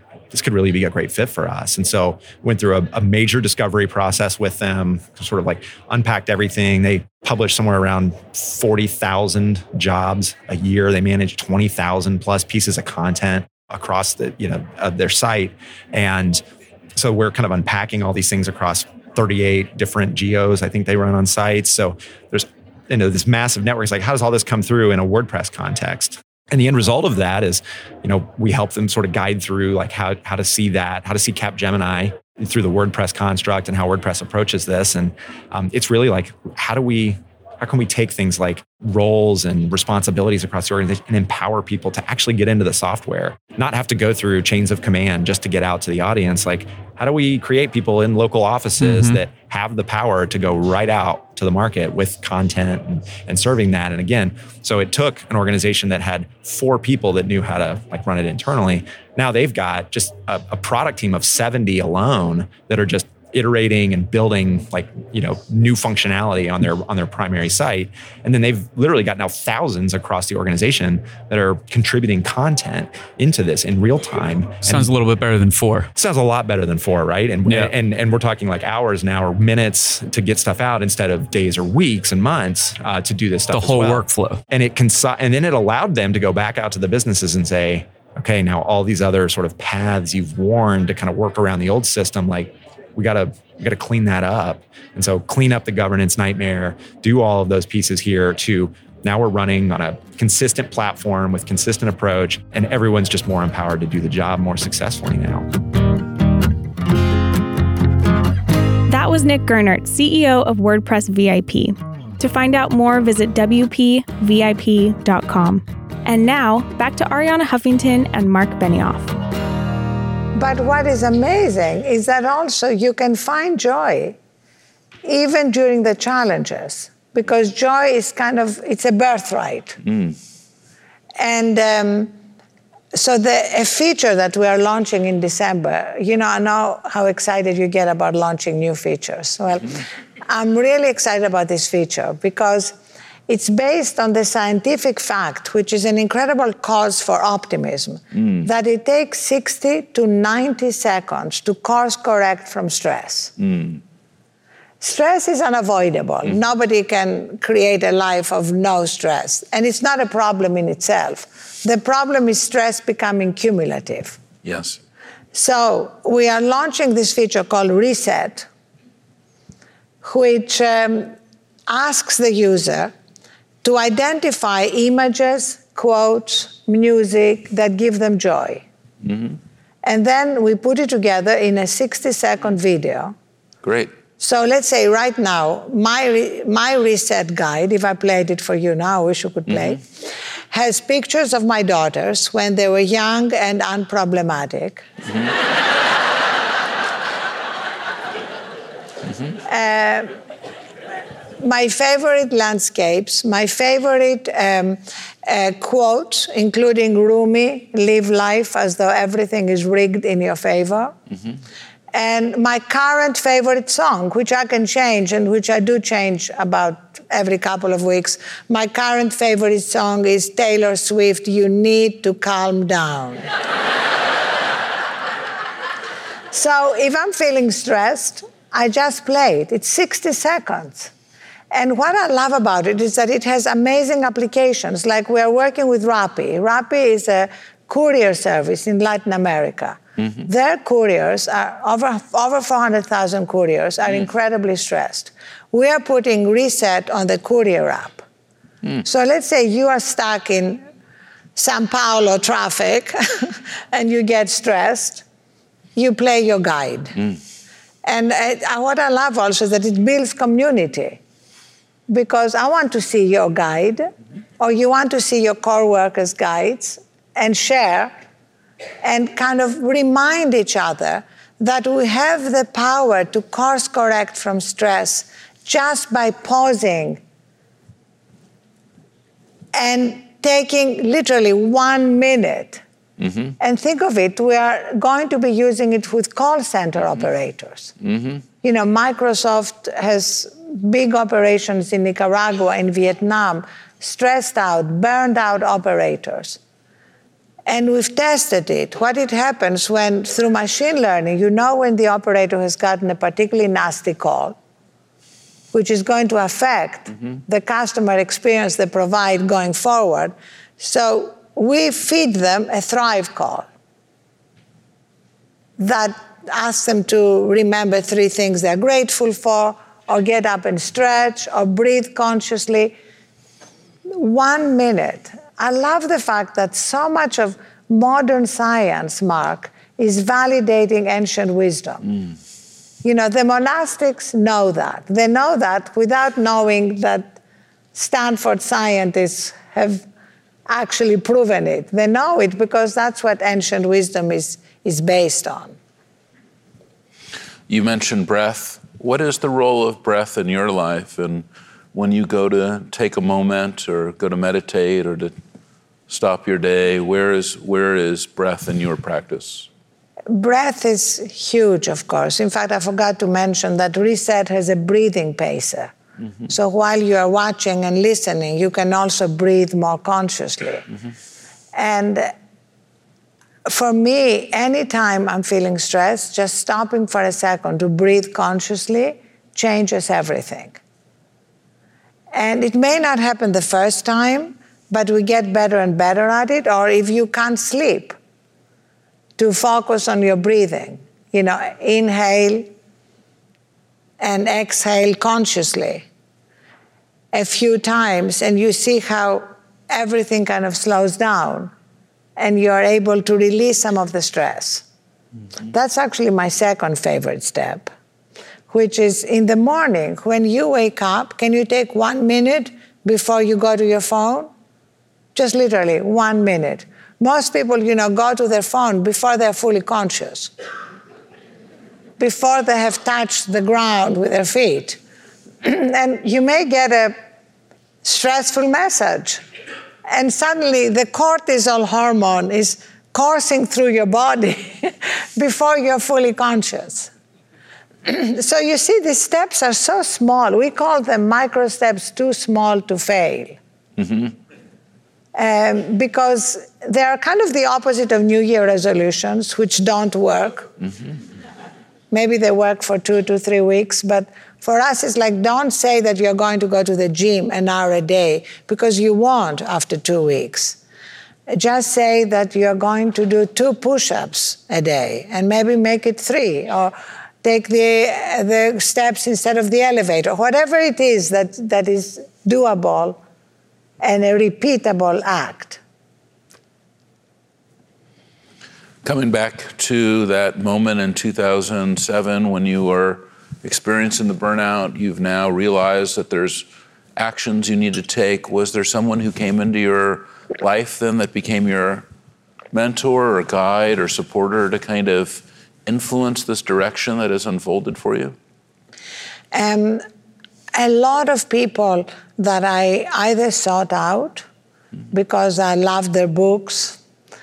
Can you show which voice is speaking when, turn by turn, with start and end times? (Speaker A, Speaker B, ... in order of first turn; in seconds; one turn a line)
Speaker A: 0.3-16.4
Speaker A: 17.0-74.9
Speaker B: 48.8-49.2
Speaker B: 74.6-75.9
Speaker A: 76.0-105.5
Speaker B: 77.5-77.7
Speaker B: 83.5-84.4
Speaker C: 108.9-119.1
Speaker D: 120.4-124.2
Speaker D: 125.0-129.8
Speaker E: 129.8-130.2
Speaker D: 131.2-132.1
Speaker D: 132.9-142.8
Speaker D: 143.3-153.3
Speaker E: 153.4-153.8
Speaker D: 154.8-164.2
Speaker E: 164.4-164.8
Speaker D: 165.3-168.5
Speaker D: 170.0-171.2
Speaker D: 171.7-172.9
Speaker D: 173.6-178.7
Speaker E: 179.0-179.4
Speaker D: 179.8-183.2
Speaker E: 183.6-183.9
Speaker D: 184.2-194.8
Speaker D: 199.4-200.1
Speaker D: 201.4-210.9
Speaker D: 211.9-223.2
Speaker D: 226.3-230.9
Speaker D: 231.5-248.0
Speaker D: 248.8-250.6
Speaker D: 251.4-255.0
Speaker D: 255.8-257.1
Speaker D: 257.9-261.0
Speaker D: 261.9-267.9
Speaker D: 268.8-277.0
Speaker D: 279.5-282.6
Speaker E: 283.0-283.3
Speaker D: 283.4-287.7
Speaker E: 287.8-288.2
Speaker D: 288.4-296.4
Speaker D: 297.5-304.4
Speaker D: 305.5-313.5
Speaker D: 315.6-322.8
Speaker D: 323.9-331.9
Speaker D: 332.8-337.2
Speaker D: 337.8-339.9
Speaker D: 340.5-345.6
Speaker E: 347.5-355.1
Speaker E: 355.9-359.5
Speaker D: 360.1-365.7
Speaker D: 366.3-370.6
Speaker D: 371.5-372.1
Speaker D: 373.5-380.6
Speaker D: 382.1-387.9
Speaker D: 389.2-392.5
Speaker D: 394.0-395.9
Speaker D: 397.1-401.5
Speaker D: 402.2-404.6
Speaker D: 405.5-407.7
Speaker D: 408.5-414.3
Speaker D: 415.1-420.3
Speaker D: 422.0-424.8
Speaker D: 425.4-427.0
Speaker D: 427.8-429.2
Speaker D: 429.9-436.9
Speaker D: 437.9-443.4
Speaker E: 443.8-444.1
Speaker D: 445.1-450.5
Speaker D: 451.9-460.6
Speaker D: 461.3-473.0
Speaker D: 473.8-475.6
Speaker E: 478.8-491.9
Speaker E: 492.5-498.2
Speaker D: 499.3-499.8
Speaker D: 500.5-504.2
Speaker D: 504.9-506.8